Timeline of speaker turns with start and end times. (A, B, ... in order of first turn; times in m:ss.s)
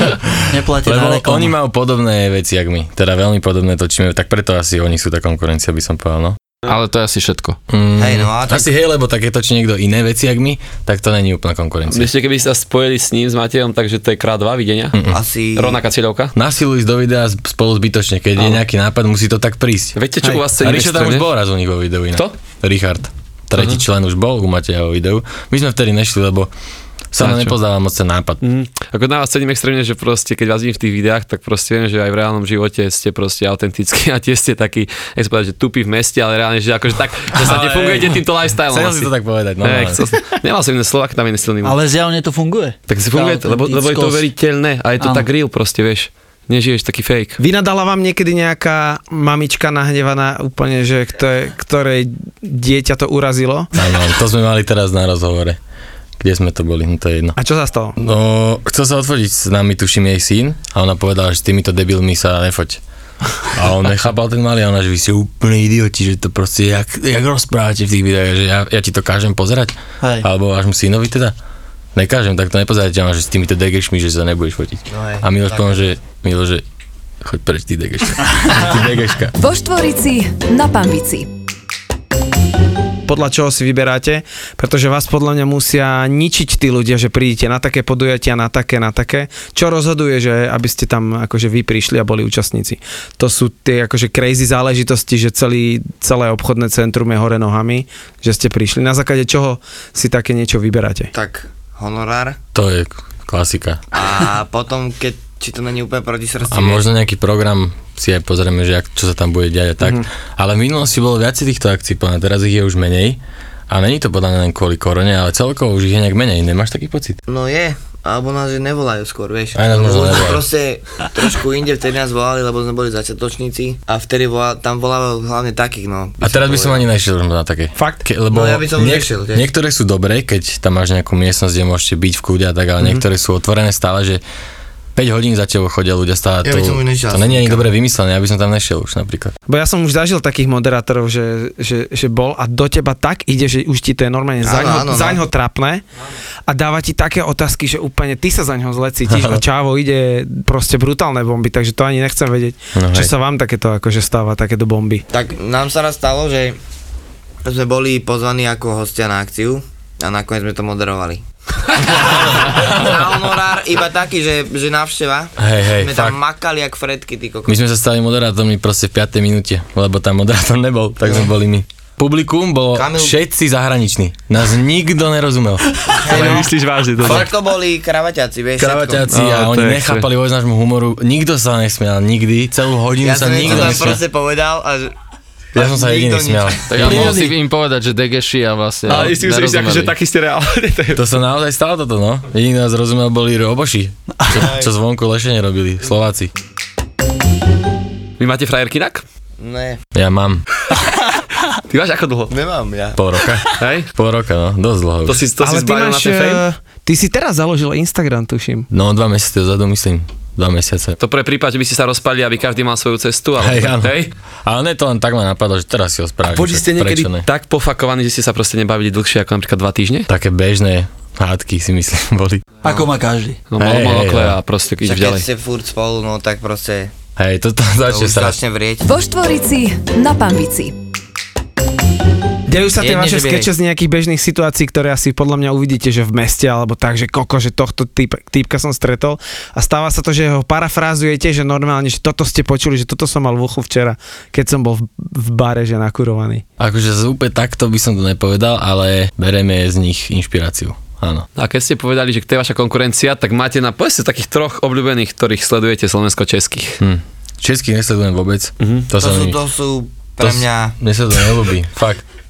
0:00.3-0:06.4 A
0:00.5-0:01.5 B
0:06.6-0:07.6 C
0:07.7-0:12.1 A
0:08.0-0:08.7 D
0:11.9-0:14.9 E
0:14.9-0:15.2 A
0:15.1-0:15.8 D
0:15.5-0:16.3 E
0:16.3-0:20.0 A
0:20.0-0:21.3 E
0:20.6-0:26.5 A
0:23.5-0:23.8 E
0:27.1-0:28.4 A
0:27.2-0:27.6 E
0:28.4-0:39.1 E
0:37.4-0:40.0 A
0:39.6-0:41.8 E
0:41.6-0:44.3 B
0:42.9-0:47.4 E
0:45.0-0:45.3 B
0:47.4-0:53.7 F
0:53.7-0:55.6 A
0:56.2-0:57.4 A
0:57.4-0:57.9 F
0:58.0-1:02.8 A
1:03.4-1:11.3 A
1:10.0-1:10.2 B
1:11.9-1:16.6 A
1:14.9-1:15.8 D
1:17.2-1:19.3 A
1:19.4-1:21.3 G
1:23.1-1:41.1 F
1:41.1-1:42.4 D
1:42.5-1:43.8 A
1:43.9-1:46.8 D
1:46.5-1:57.2 A
1:57.3-2:06.8 D
1:59.5-2:00.4 A
2:06.2-2:14.2 A
2:07.7-2:08.0 F
2:08.3-2:09.5 D
2:15.0-2:19.3 A
2:16.4-2:17.6 D
2:19.5-2:25.8 F
2:24.4-2:25.2 D
2:26.5-2:35.0 F
2:29.1-2:29.4 A
2:32.7-2:33.1 A
2:35.1-2:36.6 D
2:37.4-2:47.6 D
2:45.4-2:46.2 A
2:47.4-2:56.4 A
2:51.0-2:51.3 D
2:52.7-2:53.2 D
2:55.9-2:57.3 E
2:55.9-2:59.1 D
2:58.6-3:04.0 A
2:59.1-3:00.1 E
3:03.0-3:04.9 D
3:03.5-3:03.7 E
3:05.5-3:07.2 D
3:05.5-3:07.2 A
3:06.7-3:09.9 C
3:06.8-3:07.3 B
3:08.8-3:11.0 E
3:10.9-3:16.3 A
3:14.3-3:14.7 D
3:18.2-3:19.0 E
3:19.4-3:19.8 D
3:19.9-3:20.4 A
3:21.7-3:22.3 E
3:22.3-3:23.0 D
3:23.0-3:25.2 A
3:23.6-3:23.9 E
3:25.1-3:26.4 E
3:25.4-3:28.7 F
3:28.7-3:31.0 A
3:31.0-3:34.1 E
3:33.4-3:37.2 A
3:36.3-3:40.1 E
3:36.5-3:36.9 F
3:40.1-3:42.4 A
3:42.6-3:43.4 B
3:42.6-3:42.9 D
3:43.5-3:45.2 E
3:43.6-3:44.4 A
3:44.8-3:46.9 D
3:47.2-3:48.4 A
3:47.9-3:48.8 D
3:48.8-3:50.7 G
3:52.5-4:06.4 F
3:52.8-3:53.5 D
4:06.6-4:11.2 A
4:11.4-4:16.8 E
4:16.8-4:19.4 A
4:18.6-4:18.8 E
4:18.9-4:20.7 D
4:20.2-4:22.0 A